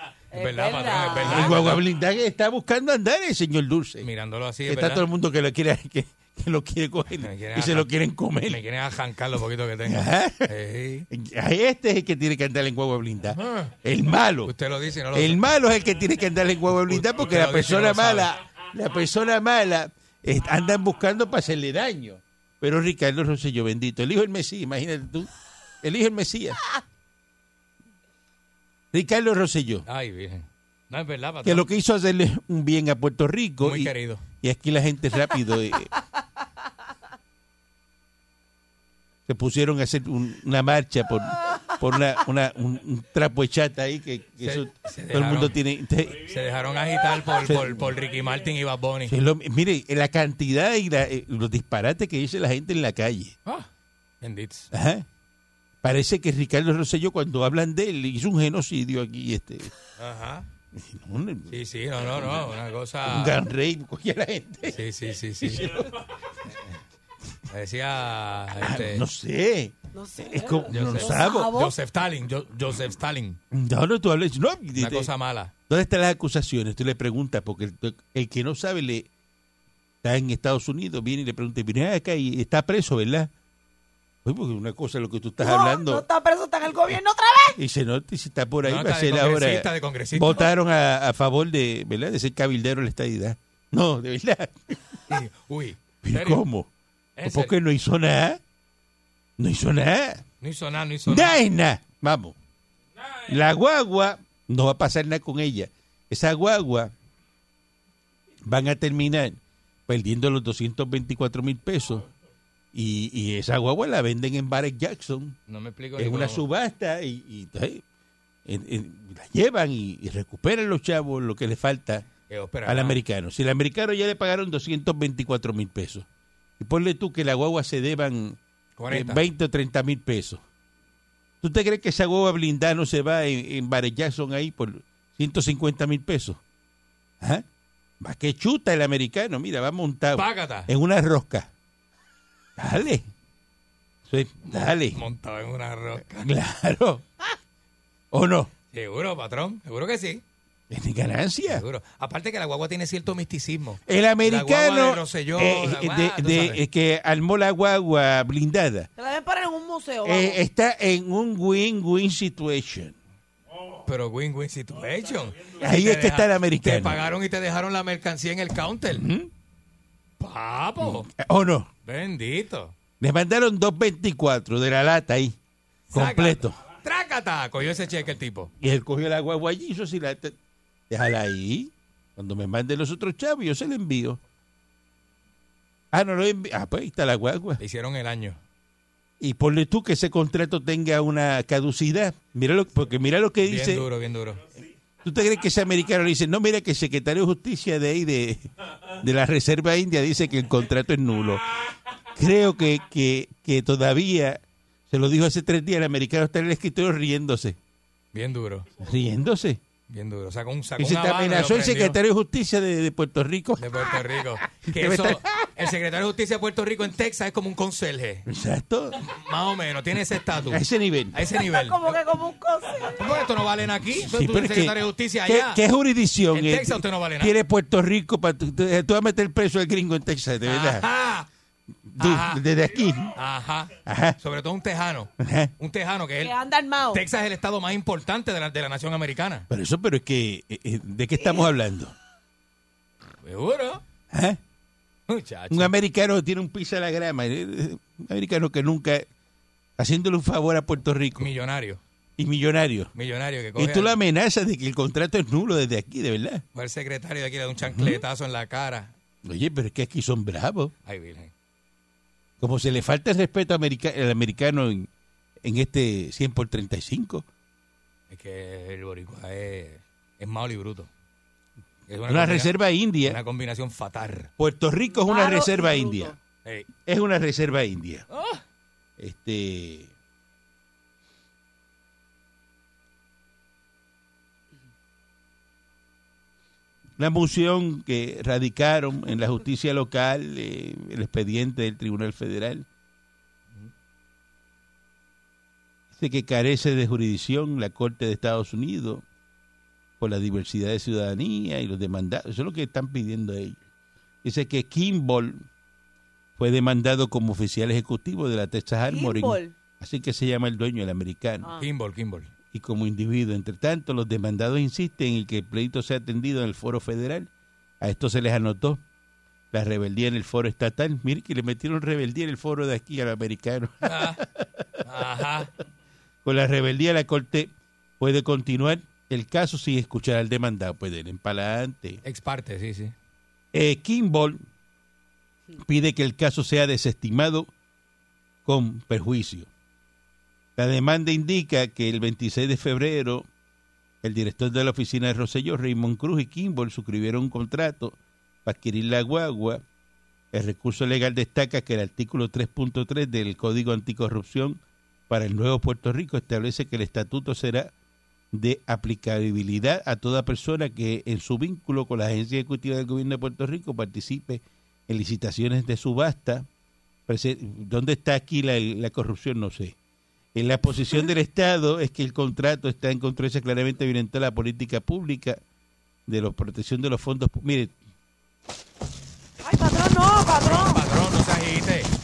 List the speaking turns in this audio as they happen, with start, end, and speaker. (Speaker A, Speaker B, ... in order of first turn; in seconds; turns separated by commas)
Speaker A: 0.3-1.6, Speaker B: 0.3-1.8, Speaker C: 1.2-4.1, Speaker B: 4.0-5.1, Speaker C: 4.7-8.6, Speaker B: 7.2-7.9, Speaker B: 8.4-11.1, Speaker C: 9.8-10.5, Speaker C: 11.1-14.5, Speaker B: 13.4-13.8, Speaker B: 14.5-15.4, Speaker C: 15.1-25.3, Speaker B: 16.9-18.3, Speaker C: 25.8-26.6, Speaker C: 28.9-29.9, Speaker B: 29.9-31.7, Speaker C: 31.4-35.9, Speaker B: 33.6-34.2, Speaker C: 39.3-46.3, Speaker B: 44.4-45.6, Speaker B: 46.2-49.1, Speaker C: 47.4-48.0, Speaker C: 49.1-53.4, Speaker B: 54.2-54.7, Speaker C: 54.7-55.1, Speaker C: 55.8-59.7, Speaker B: 60.0-60.5, Speaker C: 60.7-62.5, Speaker B: 61.5-63.4, Speaker C: 63.0-64.8, Speaker B: 64.7-65.9, Speaker C: 65.4-66.0, Speaker B: 67.5-69.0, Speaker C: 68.6-71.6, Speaker A: 69.9-71.7, Speaker B: 70.7-73.4, Speaker C: 73.5-75.1, Speaker B: 74.8-75.5, Speaker C: 75.7-79.1, Speaker C: 80.0-83.3, Speaker C: 84.2-86.0, Speaker A: 85.4-87.6, Speaker C: 87.6-95.0, Speaker B: 88.7-90.5, Speaker B: 95.1-96.4, Speaker C: 96.0-96.7, Speaker B: 97.2-97.5, Speaker C: 97.2-98.4, Speaker C: 99.4-100.2, Speaker B: 100.4-101.4, Speaker C: 101.1-102.3, Speaker C: 103.2-106.9, Speaker C: 108.5-112.1, Speaker C: 112.7-115.4, Speaker B: 115.5-116.4, Speaker C: 116.0-117.8, Speaker C: 118.5-122.1, Speaker B: 122.3-123.0, Speaker C: 122.7-126.1, Speaker C: 126.6-128.4, Speaker B: 128.8-129.2, Speaker C: 128.9-130.4, Speaker C: 131.4-136.4, Speaker C: 138.0-141.5, Speaker B: 140.1-140.7, Speaker C: 142.6-143.1, Speaker C: 144.1-145.0, Speaker B: 144.5-146.3, Speaker C: 146.2-147.4, Speaker C: 148.1-148.5, Speaker B: 148.7-150.2, Speaker C: 150.7-151.7, Speaker B: 151.5-156.6, Speaker C: 153.9-158.9, Speaker A: 159.0-160.4, Speaker C: 160.0-162.9, Speaker B: 163.8-169.1, Speaker C: 165.6-167.1, Speaker C: 168.9-169.3, Speaker B: 170.2-171.1, Speaker C: 170.8-171.7, Speaker B: 171.8-172.7, Speaker C: 173.0-175.4, Speaker B: 175.9-178.5, Speaker C: 175.9-176.6, Speaker C: 178.6-180.4, Speaker C: 180.9-184.2, Speaker C: 185.9-187.6, Speaker B: 187.6-188.4, Speaker C: 189.2-193.9, Speaker B: 193.4-194.4, Speaker C: 195.0-207.6, Speaker B: 208.1-208.7, Speaker C: 208.8-209.6, Speaker B: 209.9-212.0, Speaker C: 210.8-214.0, Speaker B: 213.6-218.3, Speaker C: 214.6-215.5, Speaker C: 218.3-219.0, Speaker B: 219.0-221.9, Speaker C: 220.5-221.2, Speaker A: 221.4-223.1, Speaker B: 223.0-225.6, Speaker C: 224.0-230.9, Speaker B: 226.3-227.3, Speaker B: 230.4-231.3, Speaker C: 231.9-233.1, Speaker B: 232.0-232.4, Speaker B: 233.1-236.3, Speaker C: 233.8-234.2, Speaker C: 235.2-235.5, Speaker A: 236.2-237.0, Speaker B: 236.9-239.5, Speaker C: 239.5-241.9, Speaker B: 243.2-243.8, Speaker C: 244.1-244.4, Speaker B: 245.1-245.7, Speaker C: 245.5-249.1, Speaker C: 249.8-251.3, Speaker B: 251.2-251.8, Speaker C: 252.2-252.9, Speaker B: 252.9-254.0, Speaker C: 253.6-256.4, Speaker B: 256.6-258.9, Speaker C: 257.6-258.0, Speaker C: 259.2-260.7, Speaker B: 260.9-261.3, Speaker C: 262.4-264.9, Speaker C: 265.4-267.2, Speaker B: 268.1-270.9, Speaker B: 271.9-274.3, Speaker C: 272.1-273.2, Speaker C: 274.4-276.1, Speaker A: 275.0-276.2, Speaker C: 276.9-278.1, Speaker B: 278.1-278.4, Speaker C: 279.0-279.9, Speaker C: 287.0-292.7, Speaker C: 295.9-299.0, Speaker C: 300.0-303.6, Speaker C: 304.2-305.5, Speaker C: 306.4-311.5, Speaker A: 308.9-309.5, Speaker B: 311.6-312.3, Speaker C: 312.5-317.3, Speaker C: 317.8-318.8, Speaker C: 319.5-324.8, Speaker B: 323.8-324.2, Speaker B: 324.8-325.5, Speaker C: 326.2-332.0, Speaker B: 332.0-332.9, Speaker C: 333.5-334.4, Speaker C: 335.6-337.5, Speaker C: 338.4-339.5, Speaker C: 340.6-343.3, Speaker C: 344.0-349.6, Speaker C: 350.3-357.7, Speaker C: 358.3-366.5, Speaker C: 367.1-369.8, Speaker C: 370.3-375.4, Speaker C: 376.1-377.8, Speaker A: 379.4-380.8, Speaker B: 380.3-381.9